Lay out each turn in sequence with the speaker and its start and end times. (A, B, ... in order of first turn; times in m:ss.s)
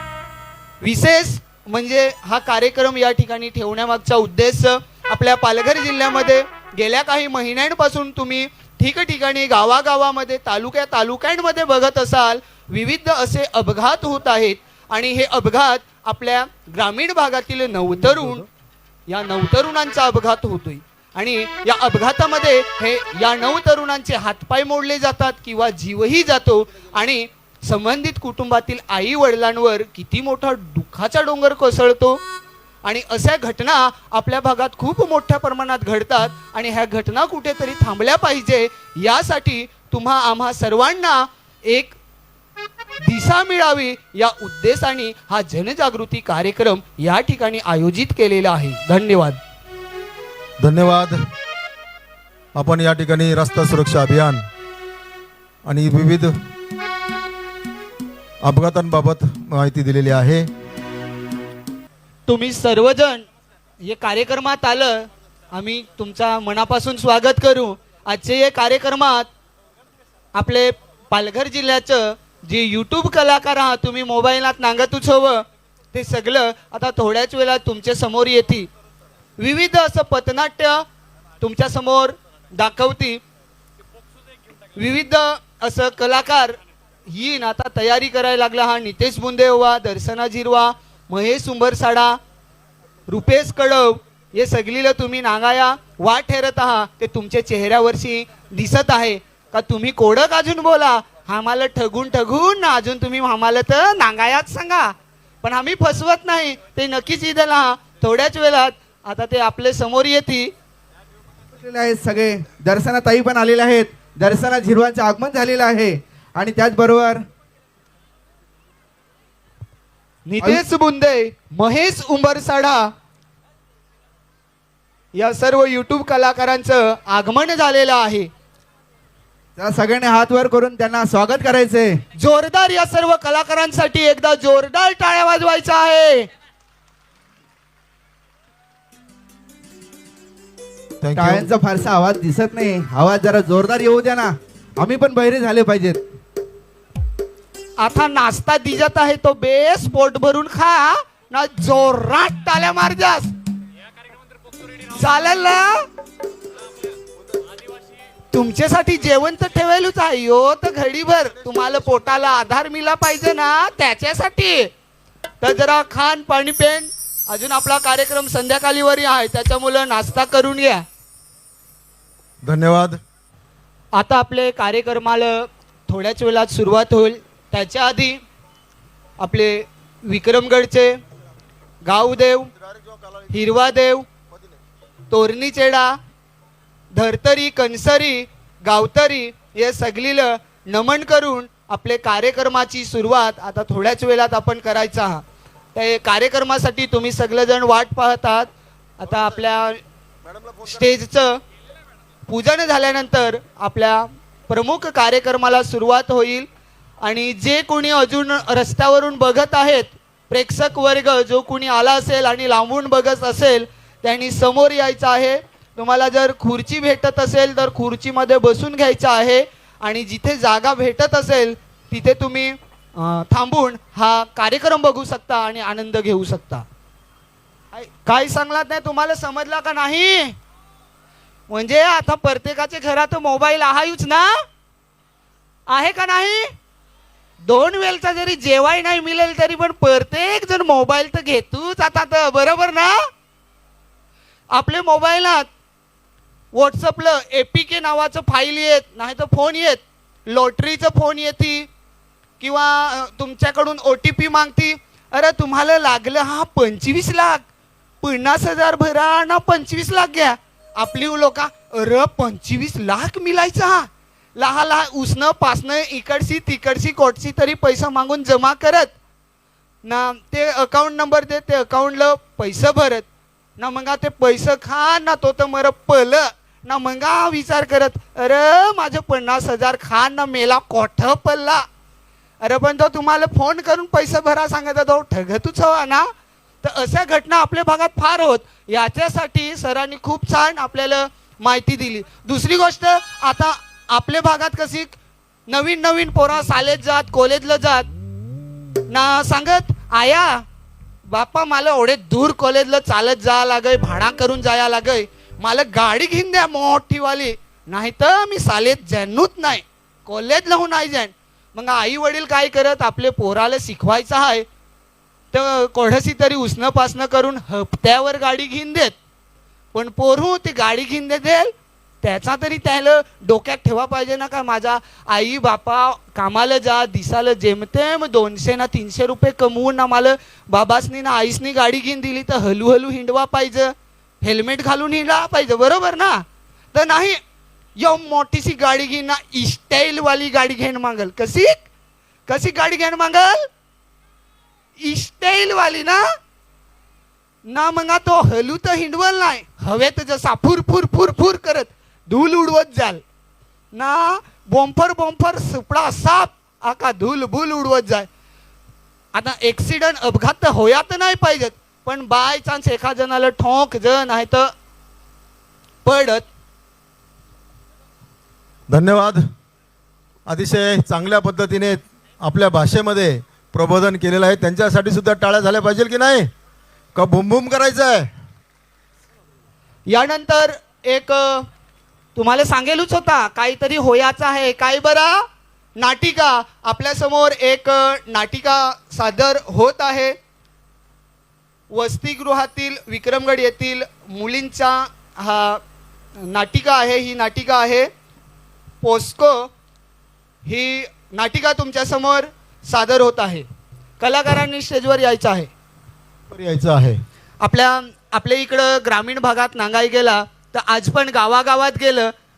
0:00.8-0:18.4 A
0:19.1-0:32.2 A
0:32.8-0:42.0 A
0:43.0-0:49.4 A
0:50.6-0:51.2 B
0:52.6-0:54.4 B
0:55.6-0:56.3 B
0:58.4-1:00.5 B
1:02.3-1:03.2 A
1:03.8-1:09.3 A
1:10.3-1:18.7 A
1:19.4-1:20.8 A
1:21.4-1:23.2 A
1:24.8-1:32.2 A
1:33.1-1:50.5 A
1:51.6-1:57.2 C
2:00.2-2:02.9 A
2:05.1-2:08.3 A
2:09.6-2:12.0 C
2:12.2-2:16.3 A
2:21.0-2:21.5 B
2:21.2-2:26.0 C
2:27.8-2:33.3 A
2:34.9-2:35.9 A
2:38.3-2:44.7 A
2:45.4-2:50.8 A
2:52.4-2:53.0 B
2:53.9-2:58.2 A
2:59.2-3:01.0 A
3:01.8-3:02.5 A
3:03.3-3:04.1 A
3:05.1-3:06.0 A
3:06.9-3:15.2 A
3:15.8-3:19.8 A
3:20.3-3:20.6 B
3:20.6-3:21.4 A
3:22.3-3:26.5 A
3:27.0-3:46.7 A
3:47.7-3:50.3 A
3:51.5-3:54.4 A
3:55.7-3:56.5 A
3:57.4-4:03.0 A
4:04.5-4:05.5 A
4:06.5-4:11.7 A
4:12.4-4:17.4 A
4:18.0-4:28.9 A
4:29.8-4:33.0 A
4:33.6-4:41.6 A
4:42.4-4:46.1 A
4:46.6-4:54.9 A
4:55.5-4:57.9 A
4:58.9-5:00.4 A
5:01.1-5:14.4 A
5:15.3-5:19.0 A
5:19.7-5:37.2 A
5:37.8-5:41.6 A
5:42.3-5:43.5 A
5:44.8-5:46.0 A
5:47.4-5:53.0 A
5:53.7-5:58.1 A
5:59.1-6:04.5 A
6:05.8-6:06.3 A
6:08.7-6:09.2 B
6:10.3-6:16.3 B
6:16.9-6:18.1 B
6:19.9-6:21.5 A
6:22.1-6:25.2 A
6:25.8-6:30.1 A
6:31.7-6:35.6 A
6:36.3-6:37.9 A
6:38.8-6:39.5 A
6:40.4-6:43.4 A
6:44.0-6:45.5 A
6:46.3-6:47.0 B
6:47.4-6:52.1 A